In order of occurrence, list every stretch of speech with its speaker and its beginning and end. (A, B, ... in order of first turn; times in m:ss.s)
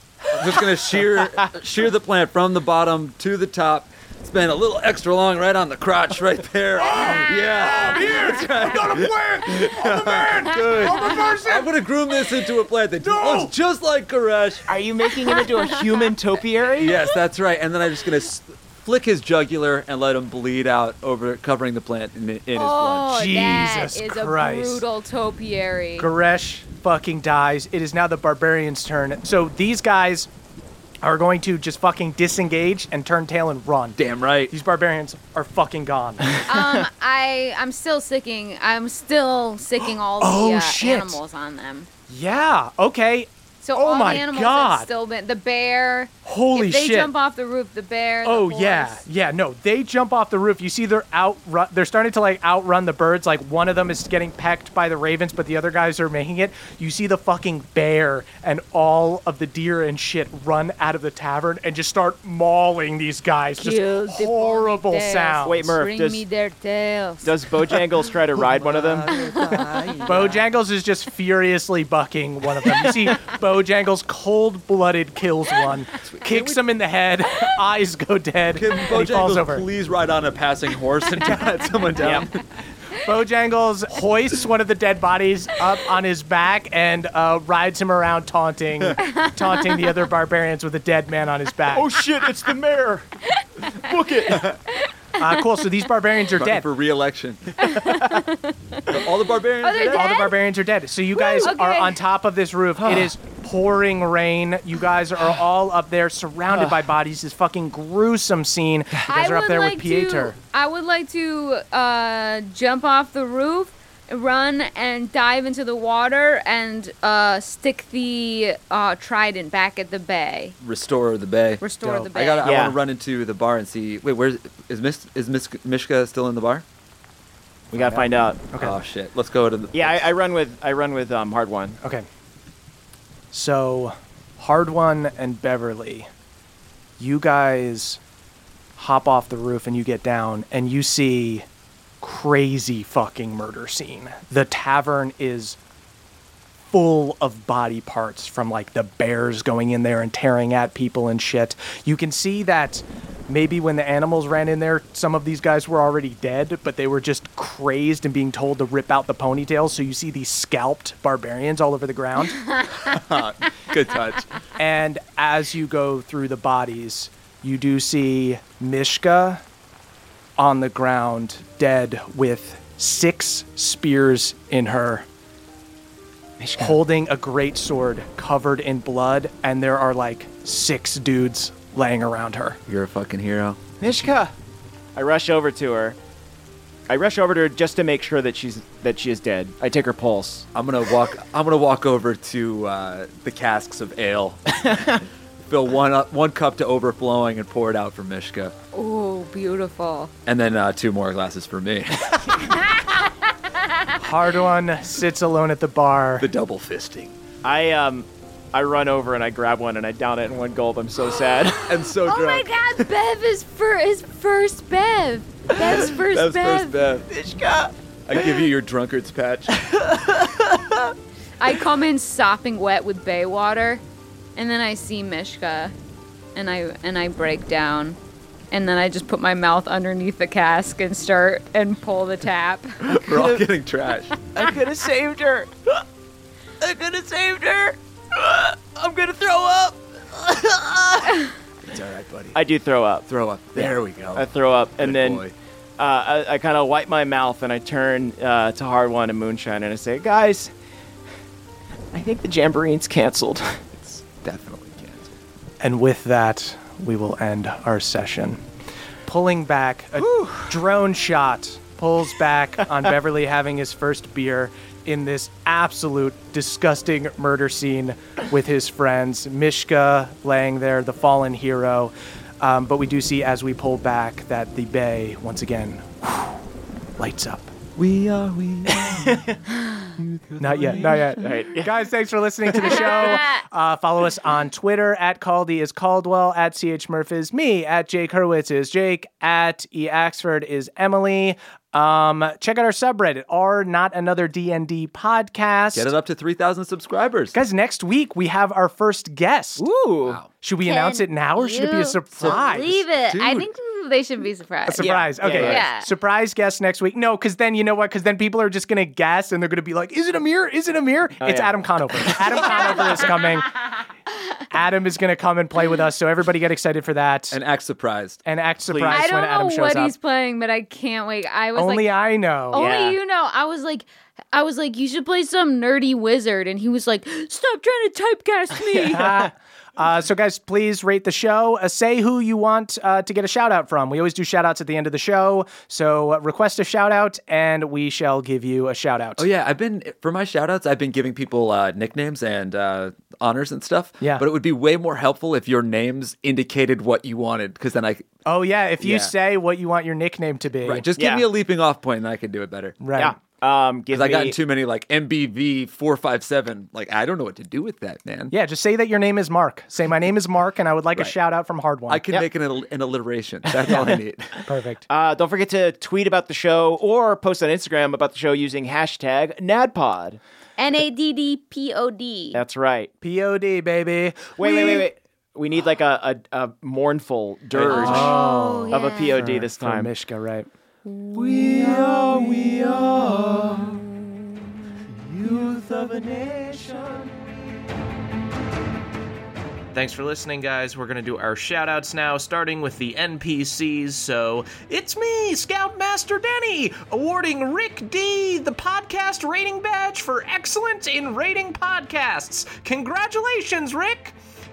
0:00.3-0:14.6 A
0:06.8-0:11.7 B
0:13.0-0:13.5 B
0:14.7-0:17.0 C
0:15.3-0:16.1 D
0:16.7-0:23.2 A
0:22.5-0:26.1 D
0:23.1-0:24.8 B
0:26.0-0:30.3 B
0:31.0-0:34.0 B
0:34.0-0:34.5 A
0:34.5-0:36.4 B
0:36.4-0:41.9 D
0:40.1-0:41.2 B
0:42.1-0:44.9 B
0:43.6-0:49.0 D
0:46.2-0:47.1 B
0:48.2-1:05.7 B
1:03.6-1:07.3 D
1:05.4-1:06.2 C
1:07.2-1:09.1 C
1:08.5-1:10.4 A
1:09.1-1:10.0 D
1:09.5-1:19.6 B
1:16.0-1:16.6 A
1:18.5-1:22.4 A
1:22.0-1:22.3 C
1:23.0-1:31.9 B
1:31.7-1:33.0 C
1:33.7-1:34.5 C
1:35.2-1:36.7 B
1:36.3-1:37.8 A
1:37.6-1:38.9 D
1:38.9-1:40.2 A
1:39.6-1:40.4 D
1:39.8-1:50.3 B
1:41.1-1:42.0 D
1:42.8-1:43.1 C
1:46.5-1:46.9 C
1:49.1-2:00.6 D
2:00.6-2:06.6 A
2:01.6-2:02.5 D
2:01.8-2:02.1 B
2:02.4-2:02.8 C
2:07.7-2:08.4 C
2:08.6-2:10.0 A
2:09.7-2:11.8 C
2:11.8-2:12.1 B
2:13.3-2:16.1 B
2:17.0-2:18.0 B
2:18.8-2:21.4 B
2:22.0-2:25.6 B
2:26.7-2:42.4 B
2:42.8-2:44.3 A
2:44.6-2:49.4 B
2:50.4-2:55.0 B
2:56.4-2:56.8 C
2:56.6-3:02.6 B
3:02.7-3:03.6 A
3:03.8-3:04.3 C
3:04.9-3:06.0 C
3:06.9-3:10.4 C
3:10.5-3:14.8 A
3:14.6-3:15.0 C
3:15.5-3:18.5 A
3:18.7-3:20.1 D
3:20.2-3:22.6 A
3:24.0-3:26.3 B
3:26.2-3:27.1 A
3:27.4-3:31.8 C
3:31.6-3:32.8 A
3:32.0-3:36.7 D
3:35.6-3:37.1 A
3:37.1-3:37.7 C
3:38.1-3:40.6 A
3:41.4-3:43.8 D
3:44.4-3:45.7 D
3:46.3-3:48.0 D
3:48.5-3:53.0 D
3:52.8-3:54.1 A
3:53.0-3:53.5 C
3:54.3-3:55.5 C
3:56.6-4:01.1 C
4:01.6-4:02.4 A
4:02.3-4:05.2 C
4:03.1-4:04.3 A
4:04.8-4:05.3 A
4:05.8-4:10.5 C
4:11.9-4:13.8 C
4:13.8-4:15.1 A
4:15.6-4:18.4 B
4:19.0-4:36.3 B
4:20.0-4:20.6 C
4:37.0-4:37.5 B
4:37.8-4:41.2 A
4:38.9-4:39.3 C
4:40.4-4:55.9 B
4:41.2-4:41.7 C
4:42.5-4:43.0 C
4:55.7-4:57.4 A
4:57.3-4:59.6 B
4:59.6-5:00.2 C
5:00.4-5:02.8 B
5:00.6-5:05.9 D
5:02.2-5:03.5 A
5:04.6-5:13.5 B
5:04.8-5:05.6 C
5:11.2-5:13.1 C
5:14.5-5:17.4 B
5:17.3-5:18.2 A
5:18.2-5:19.9 B
5:18.6-5:19.1 C
5:18.9-5:21.9 D
5:21.6-5:22.7 B
5:22.5-5:29.2 D
5:22.5-5:23.0 C
5:28.8-5:39.3 B
5:29.0-5:29.2 C
5:39.2-5:48.1 A
5:48.2-5:50.9 B
5:48.8-5:49.1 A
5:50.6-5:52.8 A
5:51.0-5:51.2 C
5:52.8-5:53.2 B
5:52.9-5:54.4 C
5:53.9-5:58.3 A
5:58.3-6:02.0 B
6:01.9-6:04.4 A
6:03.6-6:04.0 C
6:03.7-6:03.9 B
6:04.4-6:04.8 B
6:04.9-6:10.2 C
6:10.6-6:12.4 D
6:12.3-6:12.9 C
6:13.0-6:14.9 B
6:14.4-6:19.9 C
6:17.6-6:20.5 B
6:17.7-6:19.2 D
6:21.2-6:23.7 A
6:21.3-6:22.3 B
6:25.5-6:27.1 E
6:29.7-6:44.1 E